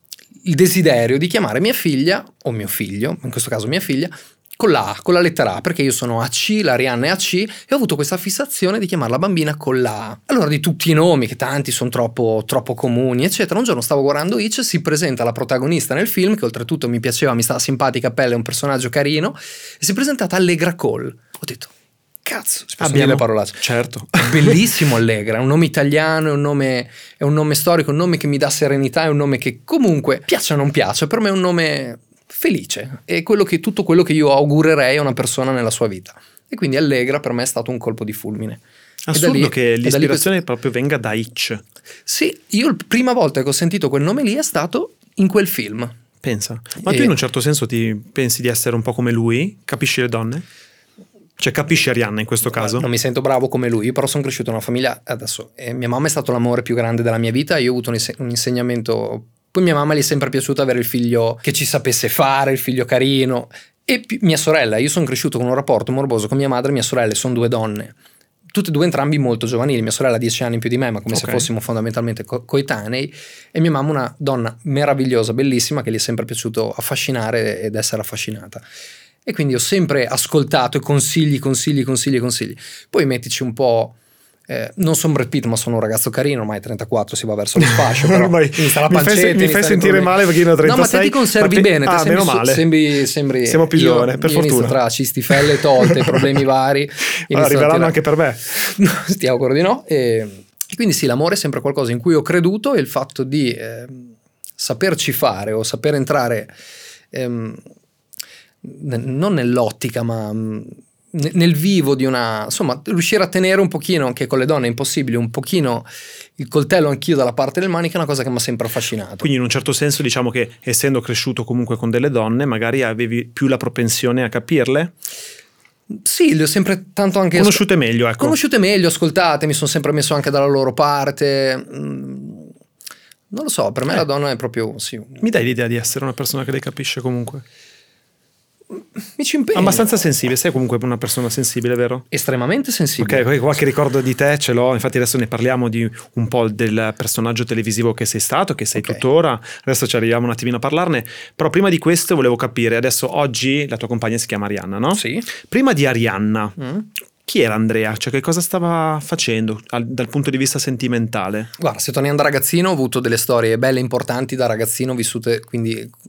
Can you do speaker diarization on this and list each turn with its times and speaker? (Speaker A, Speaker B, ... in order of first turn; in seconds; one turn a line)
Speaker A: 0.4-21.7
Speaker A: 22.2-38.6
Speaker B: 22.8-24.6
Speaker B: 39.1-41.6
Speaker A: 39.1-40.4
Speaker A: 42.1-45.9
Speaker B: 46.2-50.4
Speaker A: 46.8-47.1
Speaker B: 51.4-52.9
Speaker A: 52.4-67.9
Speaker A: 68.5-78.6
Speaker B: 71.1-71.5
Speaker A: 79.2-84.0
Speaker A: 84.5-98.0
Speaker B: 87.6-92.7
Speaker B: 93.5-94.8
Speaker B: 95.3-96.4
Speaker B: 97.3-98.7
Speaker A: 98.5-106.5
Speaker A: 107.1-107.6
Speaker A: 108.6-119.3
Speaker B: 119.2-124.9
Speaker A: 125.9-127.7
Speaker B: 127.3-128.3
Speaker A: 128.2-132.5
Speaker A: 133.3-135.2
Speaker B: 135.2-137.4
Speaker A: 138.8-139.9
Speaker B: 139.5-142.1
Speaker A: 142.1-143.3
Speaker B: 143.0-156.6
Speaker A: 148.8-149.0
Speaker A: 154.9-155.3
Speaker A: 156.6-156.9
Speaker B: 157.2-161.5
Speaker A: 161.6-165.9